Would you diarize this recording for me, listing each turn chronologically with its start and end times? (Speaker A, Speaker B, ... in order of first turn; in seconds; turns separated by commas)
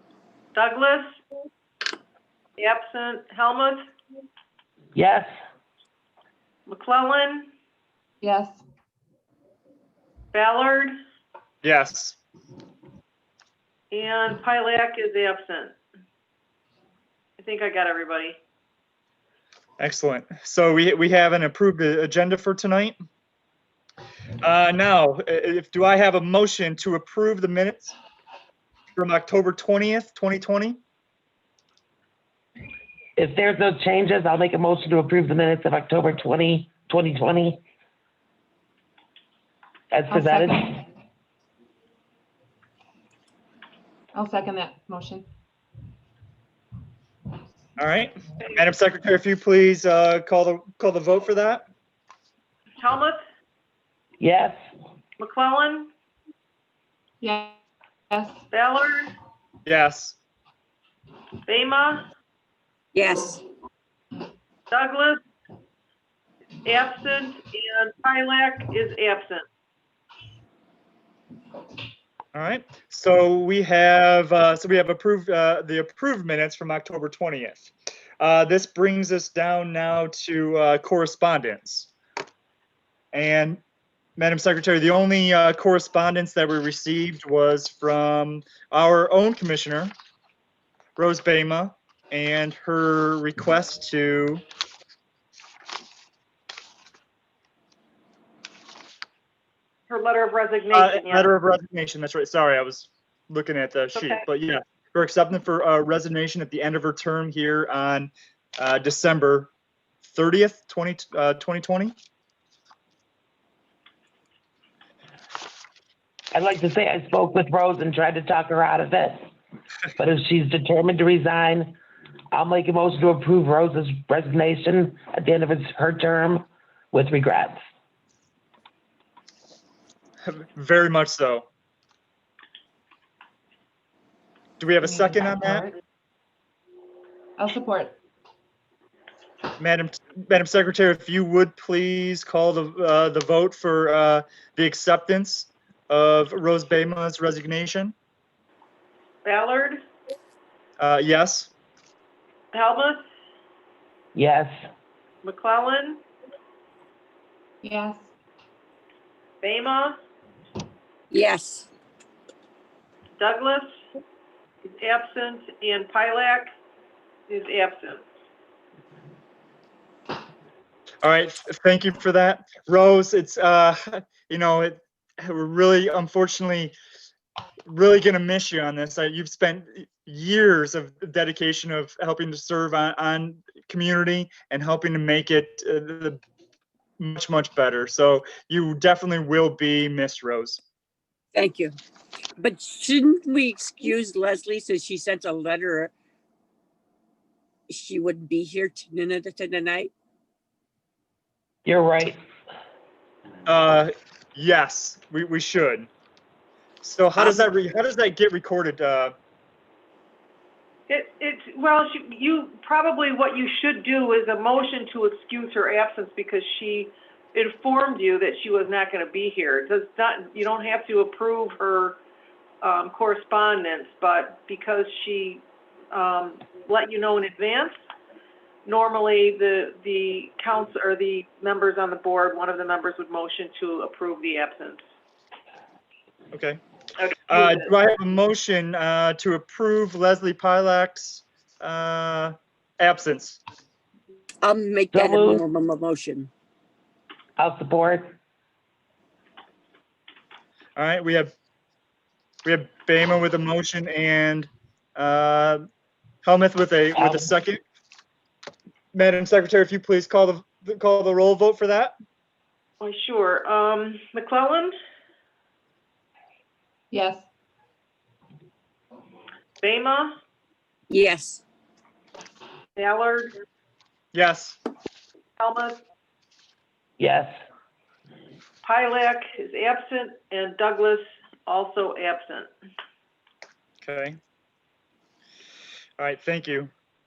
Speaker A: 0.5-1.2, Speaker A: 2.6-3.8, Speaker B: 4.9-5.3, Speaker A: 6.7-7.5, Speaker C: 8.2-8.6, Speaker A: 10.3-10.9, Speaker D: 11.6-12.2, Speaker A: 13.9-15.8, Speaker A: 17.4-18.4, Speaker D: 19.8-23.0, Speaker D: 24.4-27.9, Speaker D: 28.9-30.8, Speaker B: 33.2-37.6, Speaker B: 39.9-40.8, Speaker C: 40.1-40.7, Speaker C: 44.1-45.3, Speaker D: 47.8-51.6, Speaker A: 52.8-53.2, Speaker B: 54.2-54.6, Speaker A: 55.2-55.9, Speaker C: 57.2-57.6, Speaker C: 58.1-58.4, Speaker A: 58.5-59.1, Speaker D: 59.6-60.2, Speaker A: 61.5-62.0, Speaker E: 62.9-63.4, Speaker A: 64.7-65.2, Speaker A: 66.6-69.4, Speaker D: 72.3-81.9, Speaker D: 83.1-83.6, Speaker D: 84.2-89.9, Speaker D: 91.0-94.4, Speaker A: 99.9-101.3, Speaker D: 100.7-109.5, Speaker A: 103.9-104.2, Speaker D: 110.0-112.0, Speaker B: 116.3-119.2, Speaker B: 120.0-121.8, Speaker B: 122.3-127.6, Speaker D: 130.2-131.5, Speaker D: 134.6-135.7, Speaker C: 134.8-135.7, Speaker C: 137.4-138.0, Speaker D: 139.6-147.9, Speaker A: 149.2-149.8, Speaker D: 150.8-151.5, Speaker A: 152.5-153.0, Speaker B: 154.1-154.5, Speaker A: 155.2-156.0, Speaker C: 157.6-158.1, Speaker A: 159.4-159.9, Speaker E: 161.1-161.7, Speaker A: 163.2-163.7, Speaker A: 164.6-166.5, Speaker A: 167.3-168.0, Speaker D: 171.0-176.7, Speaker D: 177.7-186.2, Speaker D: 187.0-190.6, Speaker E: 191.3-191.7, Speaker E: 192.4-195.9, Speaker E: 197.7-199.9, Speaker B: 201.6-202.2, Speaker D: 203.4-205.9, Speaker D: 206.8-209.1, Speaker E: 207.2-207.4, Speaker A: 210.9-222.0, Speaker A: 222.6-227.7, Speaker A: 228.6-234.8, Speaker D: 236.3-236.6, Speaker A: 237.0-237.7, Speaker D: 237.3-243.4, Speaker E: 244.4-246.3, Speaker B: 244.9-245.4, Speaker B: 247.4-248.2, Speaker D: 250.8-251.3, Speaker D: 252.4-255.6, Speaker D: 256.2-257.6, Speaker B: 256.9-257.3, Speaker D: 258.9-261.9, Speaker A: 262.8-264.7, Speaker C: 266.9-267.2, Speaker A: 269.6-270.1, Speaker E: 270.9-271.4, Speaker A: 272.8-273.3, Speaker D: 274.1-274.6, Speaker A: 275.4-275.8, Speaker B: 277.0-277.3, Speaker A: 278.6-282.5, Speaker D: 283.8-284.2, Speaker D: 286.0-286.7